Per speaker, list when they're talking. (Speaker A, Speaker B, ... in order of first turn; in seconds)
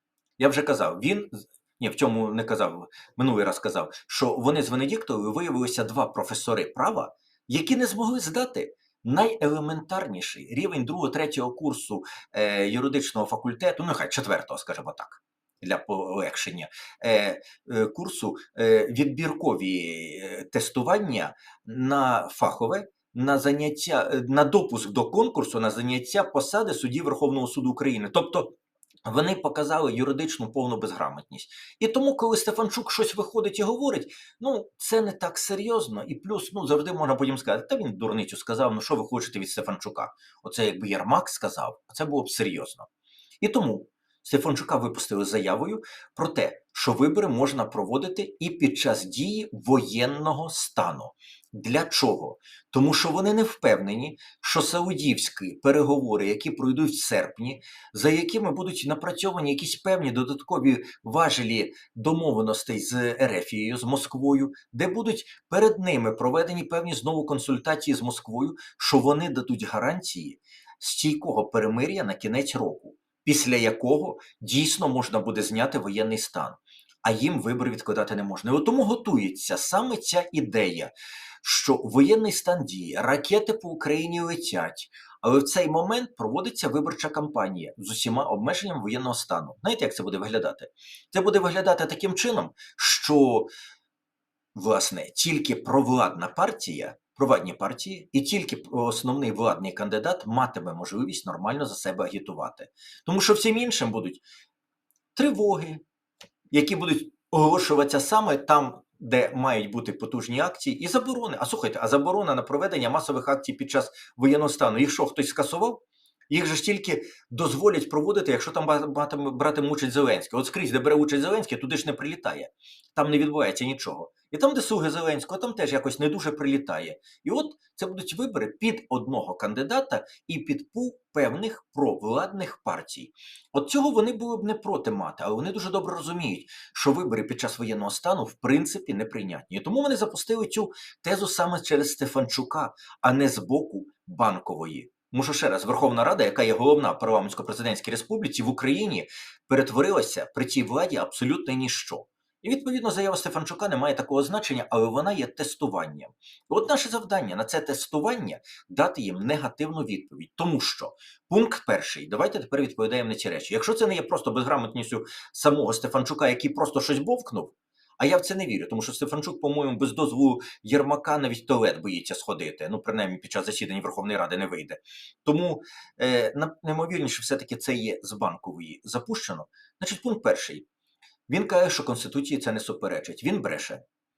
Speaker A: 0.4-42.9, 43.4-93.5, 94.5-104.2, 105.1-105.8, 106.5-180.7, 181.3-183.8